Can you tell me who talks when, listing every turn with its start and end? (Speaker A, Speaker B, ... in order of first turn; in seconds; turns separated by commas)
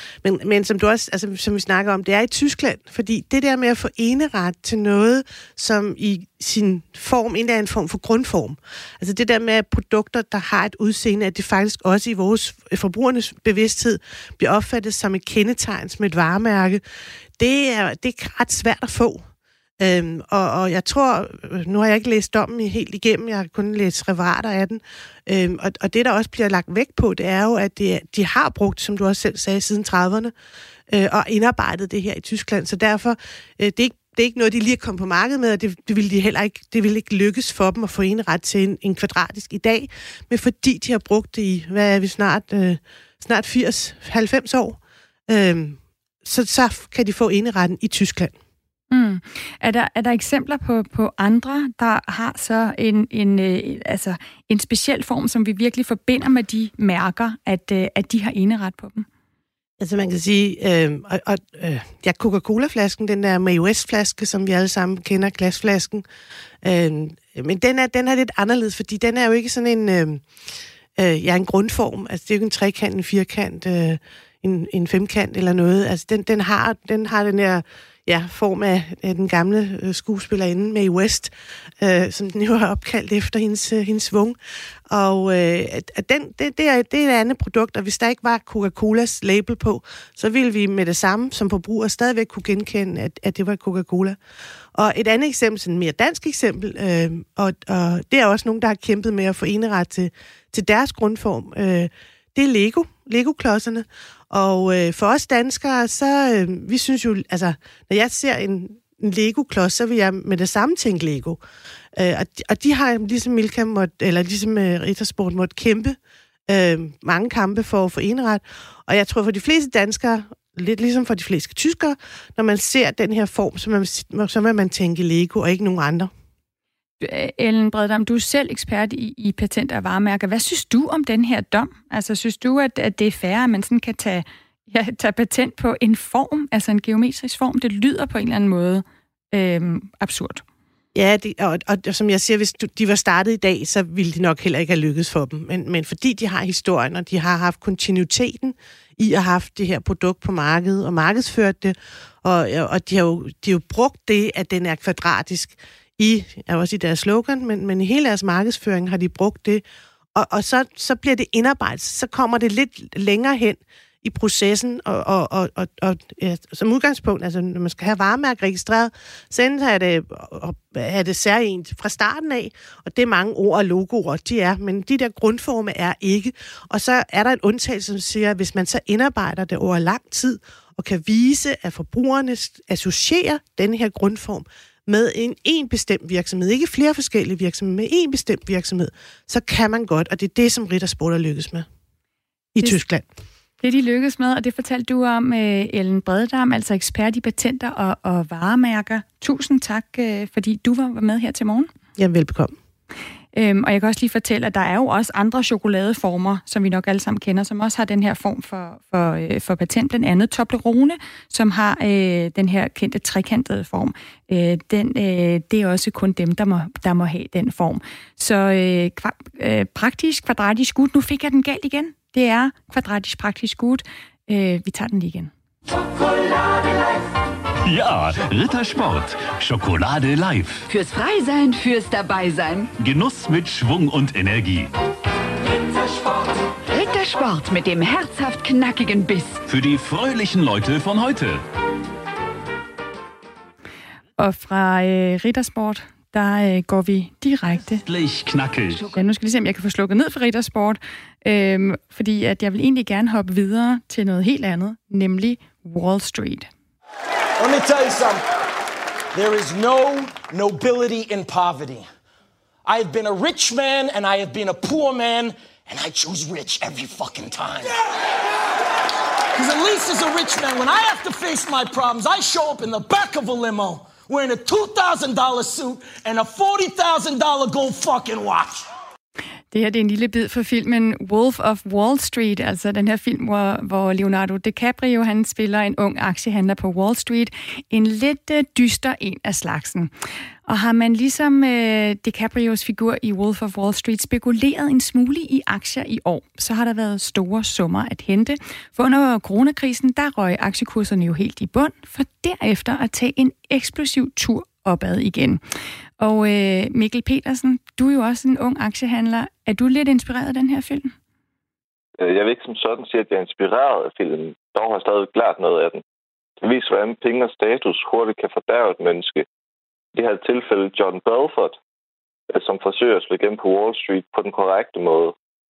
Speaker A: 0.2-16.8, Speaker A: 17.4-19.3, Speaker A: 19.8-30.3, Speaker A: 30.9-48.3, Speaker B: 48.9-59.0, Speaker A: 59.8-66.0, Speaker A: 66.6-70.3, Speaker A: 71.0-84.4, Speaker A: 84.9-94.2, Speaker A: 94.7-111.4, Speaker A: 111.9-126.1, Speaker B: 127.0-140.4, Speaker A: 140.9-191.7, Speaker A: 192.5-193.1, Speaker B: 193.6-201.7, Speaker A: 202.0-202.5, Speaker B: 203.3-225.3, Speaker C: 227.7-230.6, Speaker D: 230.7-232.7, Speaker C: 232.8-234.7, Speaker D: 236.7-239.4, Speaker C: 239.5-241.4, Speaker B: 244.2-247.8, Speaker C: 247.8-248.9, Speaker B: 248.9-256.5, Speaker E: 257.4-258.2, Speaker E: 259.1-261.9, Speaker E: 262.6-267.7, Speaker E: 269.4-278.6, Speaker B: 279.5-289.9, Speaker B: 290.5-305.4, Speaker B: 306.0-310.9, Speaker F: 312.0-315.8, Speaker F: 316.4-319.2, Speaker F: 319.9-321.6, Speaker F: 322.3-325.1